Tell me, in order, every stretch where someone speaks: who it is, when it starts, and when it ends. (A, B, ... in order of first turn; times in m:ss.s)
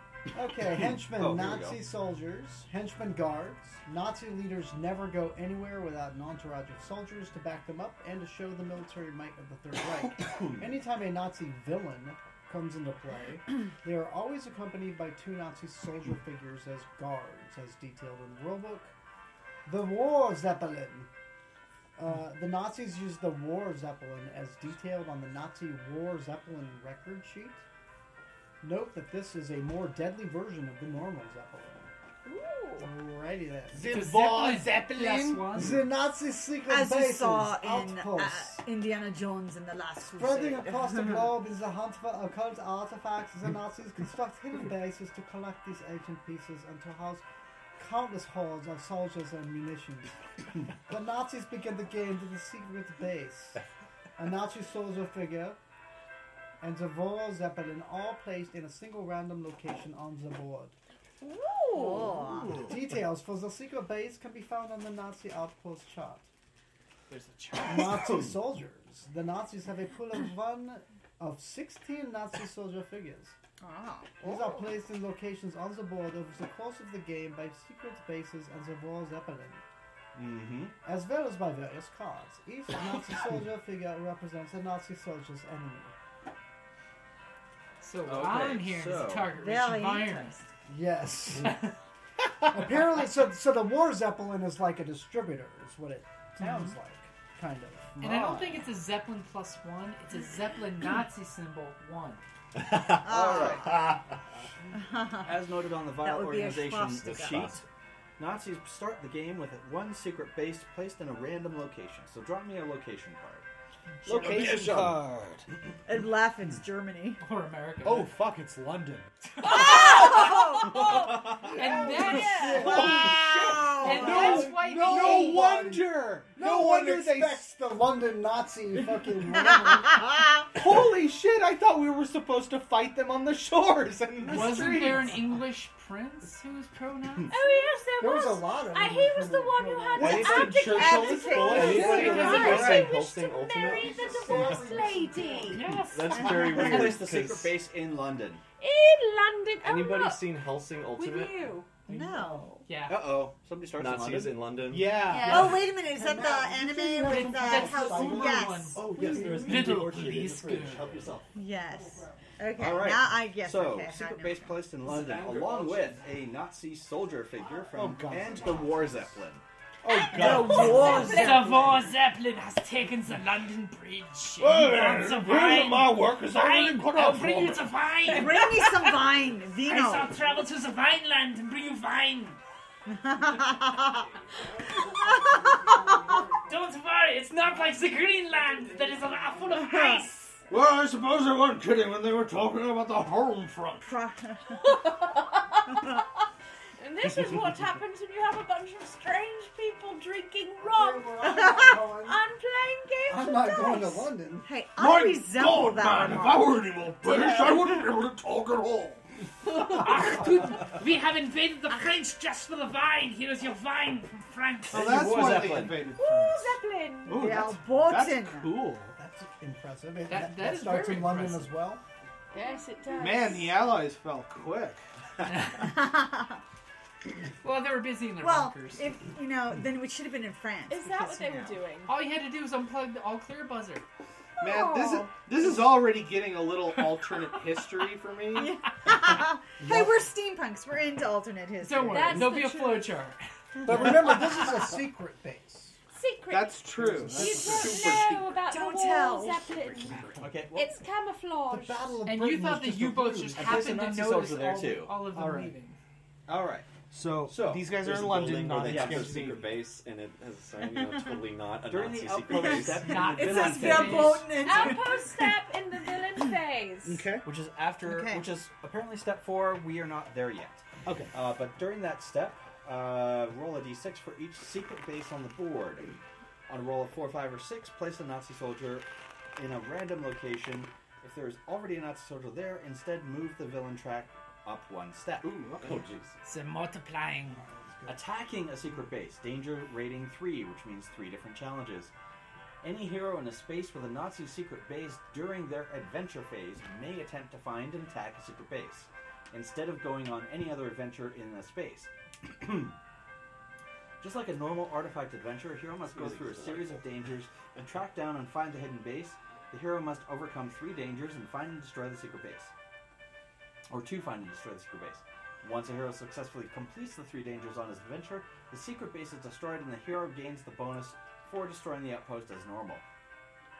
0:00.3-0:18.9 A
0:00.8-0:01.8 B
0:10.2-0:10.6 B
0:19.6-0:21.1 A
0:22.0-0:27.6 A
0:28.6-0:31.9 A
0:32.2-0:32.9 C
0:32.8-0:34.0 A
0:33.7-0:35.6 D
0:33.9-0:35.8 E
0:35.2-0:38.6 A
0:36.7-0:41.4 F
0:40.2-0:47.2 A
0:47.8-0:50.1 A
0:50.8-0:53.6 A
0:54.2-0:55.6 A
0:56.6-1:00.8 A
1:01.2-1:02.2 C
1:01.7-1:02.7 F
1:02.6-1:06.3 A
1:07.1-1:08.0 E
1:07.5-1:13.4 A
1:13.6-1:14.5 F
1:14.2-1:19.6 A
1:20.1-1:20.7 B
1:20.8-1:25.9 A
1:27.8-1:30.4 E
1:28.0-1:29.3 B
1:29.4-1:30.5 F
1:30.7-1:31.6 A
1:31.4-1:31.7 E
1:32.4-1:38.6 A
1:38.0-1:42.2 E
1:42.5-1:44.1 G
1:43.0-1:44.0 F
1:43.0-1:43.8 B
1:44.7-1:45.3 F
1:45.2-1:47.6 B
1:46.0-1:47.6 F
1:47.0-1:47.6 G
1:48.2-1:53.4 B
1:54.0-1:55.0 B
1:54.0-1:55.4 D
1:55.8-1:57.2 F
1:57.2-1:58.1 E
1:57.8-1:59.1 D
1:59.4-1:59.7 E
1:59.4-2:03.0 C
1:59.4-2:00.7 F
2:01.5-2:02.6 E
2:01.9-2:03.2 A
2:02.0-2:07.5 D
2:02.6-2:04.5 F
2:03.8-2:05.4 E
2:03.8-2:10.2 A
2:09.4-2:10.4 F
2:10.5-2:15.4 D
2:14.3-2:17.4 E
2:17.3-2:25.8 C
2:18.0-2:20.2 A
2:19.9-2:23.0 D
2:20.0-2:20.6 G
2:20.6-2:22.9 F
2:21.4-2:24.0 G
2:23.6-2:25.7 A
2:25.5-2:26.6 E
2:25.8-2:27.6 G
2:26.3-2:28.4 B
2:28.6-2:30.3 C
2:29.6-2:31.6 G
2:30.9-2:32.5 C
2:31.9-2:32.6 F
2:32.6-2:33.0 E
2:32.9-2:34.4 B
2:33.8-2:35.0 G
2:34.6-2:35.5 D
2:35.0-2:35.8 C
2:35.2-2:38.9 F
2:35.9-2:39.4 A
2:37.0-2:40.9 E
2:38.9-2:39.5 D
2:38.9-2:41.3 G
2:39.1-2:39.4 C
2:41.3-2:44.6 F
2:42.6-2:49.4 B
2:44.9-2:46.0 G
2:47.7-2:49.1 D
2:49.8-2:51.2 D
2:49.9-2:51.9 C
2:50.1-2:51.6 F
2:50.2-3:02.4 E
2:54.4-2:58.2 D
2:58.0-3:00.2 F
3:02.9-3:04.0 F
3:03.8-3:04.9 G
3:04.8-3:06.0 F
3:06.5-3:10.2 E
3:09.5-3:10.3 F
3:10.5-3:13.9 D
3:13.8-3:14.4 F
3:14.5-3:16.0 C
3:16.8-3:24.1 C
3:20.6-3:22.2 A
3:21.2-3:21.8 F
3:23.1-3:24.5 A
3:24.4-3:27.6 F
3:24.8-3:29.0 D
3:29.4-3:35.4 E
3:34.7-3:35.9 B
3:34.7-3:39.0 D
3:35.9-3:37.2 C
3:37.1-3:38.7 F
3:39.0-3:41.8 A
3:40.1-3:41.5 E
3:42.3-3:43.7 C
3:43.0-3:44.8 D
3:45.2-3:45.7 E
3:45.5-3:46.4 F
3:47.4-3:48.8 E
3:48.2-3:51.6 F
3:50.7-3:51.9 C
3:51.8-3:53.8 E
3:54.4-3:58.6 D
3:54.4-3:55.0 C
3:58.3-4:02.3 F
3:59.6-4:00.1 A
4:01.6-4:03.2 E
4:01.9-4:02.9 C
4:03.6-4:05.8 A
4:05.9-4:10.0 C
4:06.3-4:07.8 D
4:06.8-4:07.7 A
4:07.4-4:08.4 B
4:08.5-4:09.6 F
4:09.8-4:10.3 D
4:10.2-4:10.8 B
4:10.5-4:12.0 C
4:11.5-4:13.7 A
4:12.0-4:15.8 E
4:13.3-4:15.0 B
4:15.0-4:15.5 D
4:16.3-4:19.4 B
4:16.9-4:19.7 D
4:17.8-4:23.0 G
4:20.6-4:21.4 F
4:21.6-4:24.3 B
4:22.3-4:25.3 F
4:22.8-4:24.7 E
4:24.3-4:27.1 C
4:26.8-4:27.3 D
4:27.2-4:36.0 B
4:27.8-4:28.2 F
4:30.8-4:31.1 D
4:36.5-4:45.5 B
4:45.2-4:45.8 D
4:45.6-4:46.2 G
4:46.2-4:47.4 E
4:47.4-4:48.0 A
4:47.9-4:51.9 B
4:52.6-5:02.7 B
5:04.0-5:12.5 B
5:05.8-5:06.9 G
5:13.7-5:22.8 B